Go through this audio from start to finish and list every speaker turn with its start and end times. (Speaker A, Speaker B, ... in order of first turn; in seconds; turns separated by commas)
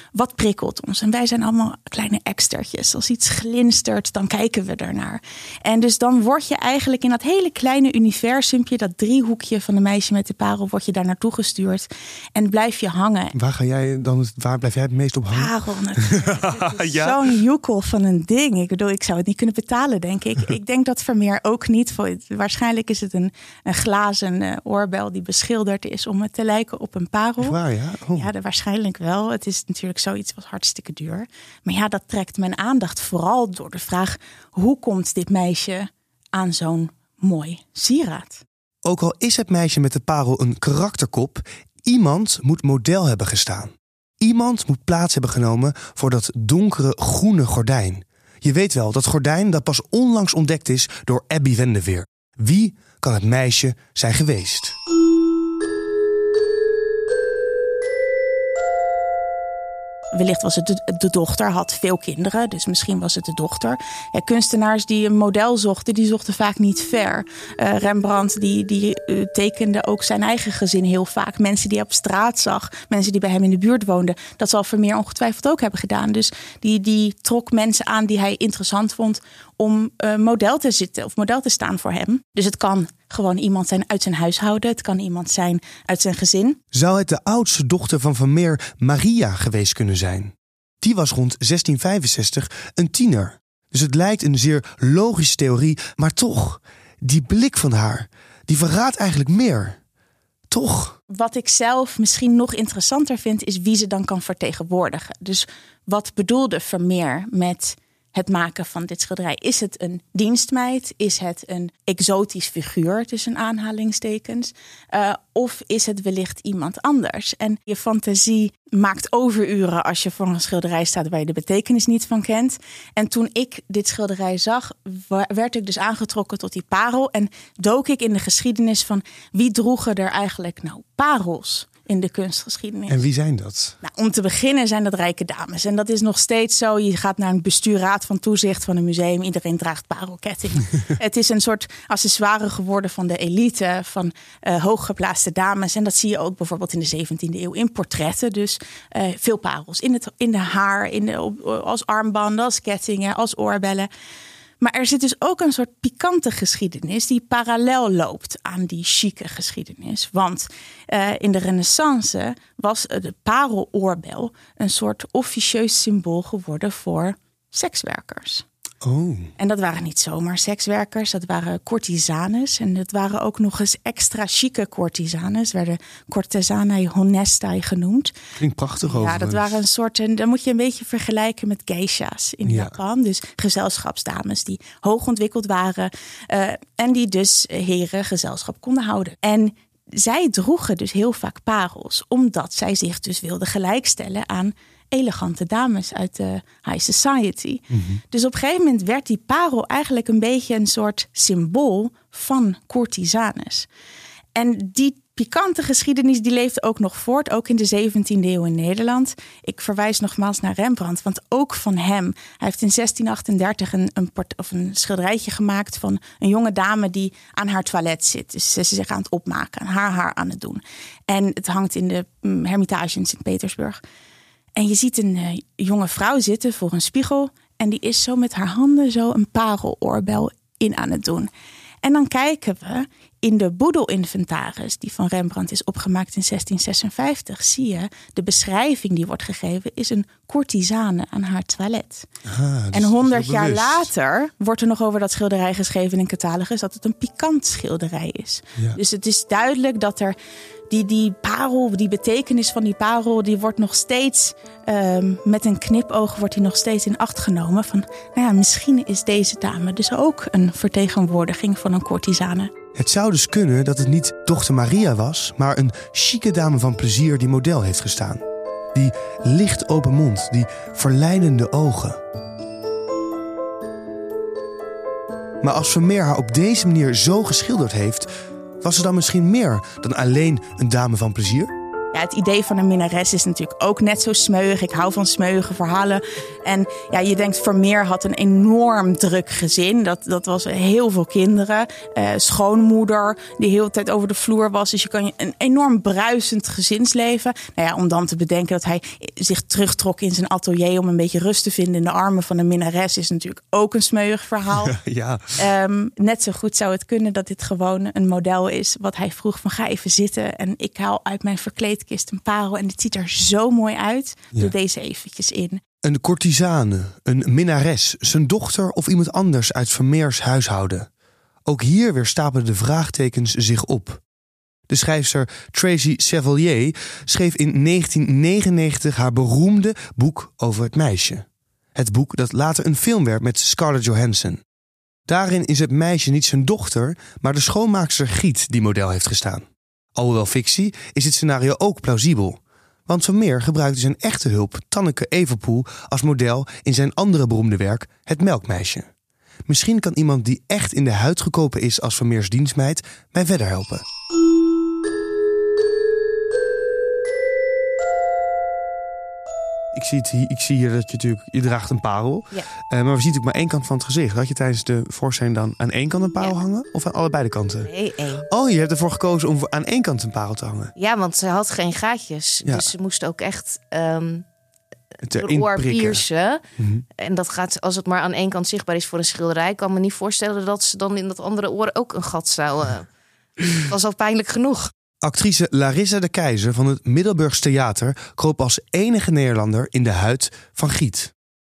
Speaker A: 0.1-13.3, Speaker B: 13.3-17.2, Speaker A: 15.3-27.6, Speaker B: 27.4-28.3, Speaker A: 28.1-38.4, Speaker B: 38.9-54.8, Speaker A: 60.1-86.6, Speaker B: 86.7-99.8, Speaker B: 100.5-101.0, Speaker A: 101.1-133.1, Speaker B: 132.9-133.8, Speaker A: 133.8-153.9, Speaker A: 154.6-168.4, Speaker B: 168.8-169.3, Speaker A: 169.4-178.1, Speaker B: 178.4-179.6, Speaker A: 178.8-203.7, Speaker B: 182.5-182.8, Speaker B: 197.7-198.0, Speaker A: 204.3-223.8, Speaker A: 224.6-231.3, Speaker A: 231.8-242.1, Speaker B: 242.2-243.9, Speaker A: 242.7-250.2, Speaker A: 250.7-262.5, Speaker B: 262.8-268.2, Speaker B: 268.8-272.0, Speaker B: 275.4-278.1, Speaker B: 278.6-281.5, Speaker A: 281.9-304.8, Speaker B: 304.6-305.4, Speaker A: 305.4-315.6, Speaker B: 315.8-320.9, Speaker B: 321.5-324.0, Speaker B: 324.7-334.4, Speaker B: 335.1-348.9, Speaker B: 349.5-353.8, Speaker B: 359.7-367.7, Speaker C: 367.7-368.3, Speaker B: 368.3-370.7, Speaker C: 370.8-374.2, Speaker B: 372.4-372.7, Speaker B: 375.0-376.1, Speaker C: 375.2-376.4, Speaker B: 376.6-376.9, Speaker C: 377.0-382.9, Speaker C: 383.5-384.7, Speaker B: 385.0-391.1